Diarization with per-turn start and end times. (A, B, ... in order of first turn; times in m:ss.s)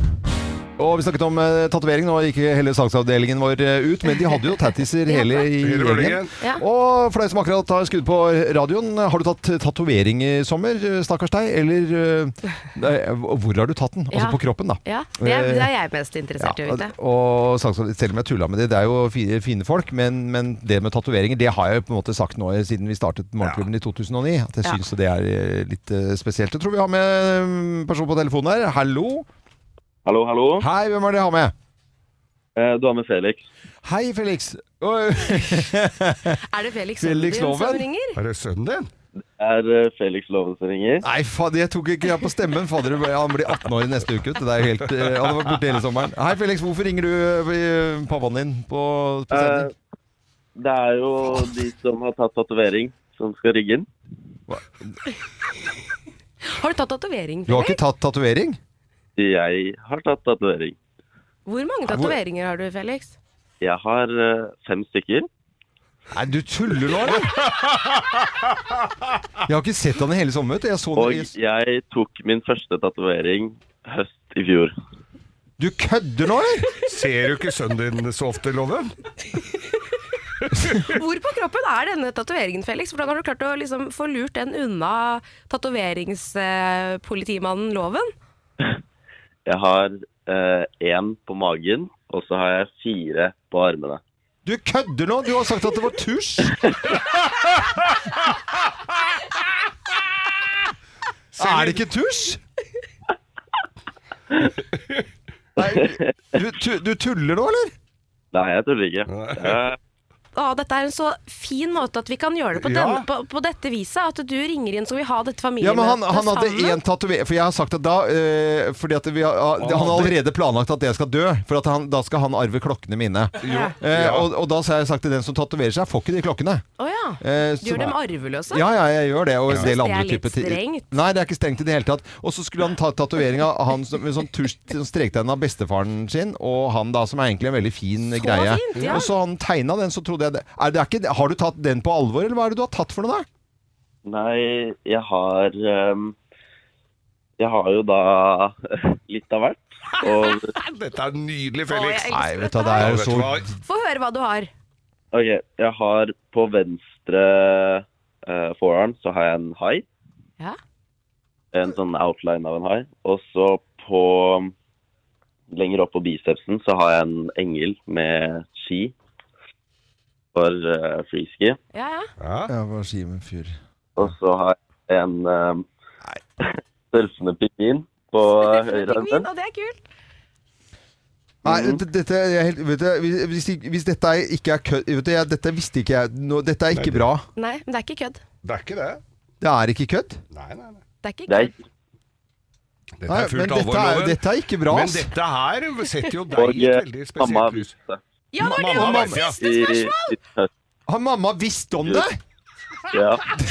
0:00.8-0:15.7 A
0:05.1-0:05.4 B
0:05.6-0:06.3 C
0:14.1-0:16.9 B
0:16.4-0:29.3 A
0:23.4-0:23.7 C
0:30.0-0:30.6 D
0:30.6-0:31.5 A
0:32.6-0:33.4 D
0:33.8-0:36.4 A
0:36.5-0:38.2 B
0:37.0-0:37.9 A
0:38.2-0:38.9 C
0:39.2-0:41.0 D
0:41.0-0:49.7 A
0:49.3-0:49.7 D
0:50.6-0:53.9 D
0:54.5-0:54.9 A
0:56.4-0:57.8 B
0:57.5-0:58.6 A
0:59.2-1:00.8 D
1:01.4-1:03.1 B
1:01.9-1:02.2 A
1:03.6-1:05.3 D
1:06.1-1:07.4 A
1:07.3-1:08.9 C
1:09.4-1:11.3 A
1:10.9-1:14.7 D
1:15.6-1:16.7 A
1:16.8-1:18.9 C
1:20.7-1:28.1 B
1:29.4-1:34.0 D
1:34.4-1:36.8 A
1:41.3-1:41.8 C
1:41.4-1:42.4 A
1:45.6-1:47.7 A
1:45.6-1:46.0 D
1:48.3-1:49.8 D
1:49.1-1:49.6 C
1:50.4-1:56.8 B
1:52.6-1:53.0 C
1:55.6-2:06.6 A
1:59.6-2:00.2 C
2:03.4-2:04.3 C
2:03.4-2:03.7 B
2:06.8-2:08.6 B
2:07.2-2:08.0 A
2:08.5-2:23.3 A
2:09.5-2:10.9 B
2:18.1-2:19.1 B
2:24.0-2:26.2 D
2:27.4-2:30.5 D
2:29.9-2:32.1 C
2:31.7-2:32.9 B
2:32.1-2:33.5 A
2:32.8-2:33.5 C
2:33.6-2:34.5 B
2:35.1-2:39.8 D
2:41.5-2:44.5 D
2:45.5-2:48.9 D
2:50.3-2:51.6 D
2:51.7-2:52.1 B
2:52.2-2:52.5 C
2:52.5-2:53.6 A
2:54.0-2:55.7 D
2:56.4-2:59.2 D
2:58.4-2:59.8 B
3:01.4-3:07.2 A
3:01.4-3:01.8 D
3:06.7-3:07.0 C
3:07.4-3:08.2 B
3:08.4-3:09.0 C
3:09.4-3:10.2 A
3:10.3-3:10.8 C
3:11.0-3:11.5 B
3:11.3-3:11.6 D
3:13.0-3:17.7 C
3:13.1-3:15.1 A
3:16.4-3:18.0 D
3:18.3-3:20.2 B
3:18.4-3:19.2 A
3:18.5-3:19.4 C
3:19.4-3:20.5 D
3:20.9-3:22.2 A
3:22.9-3:23.2 D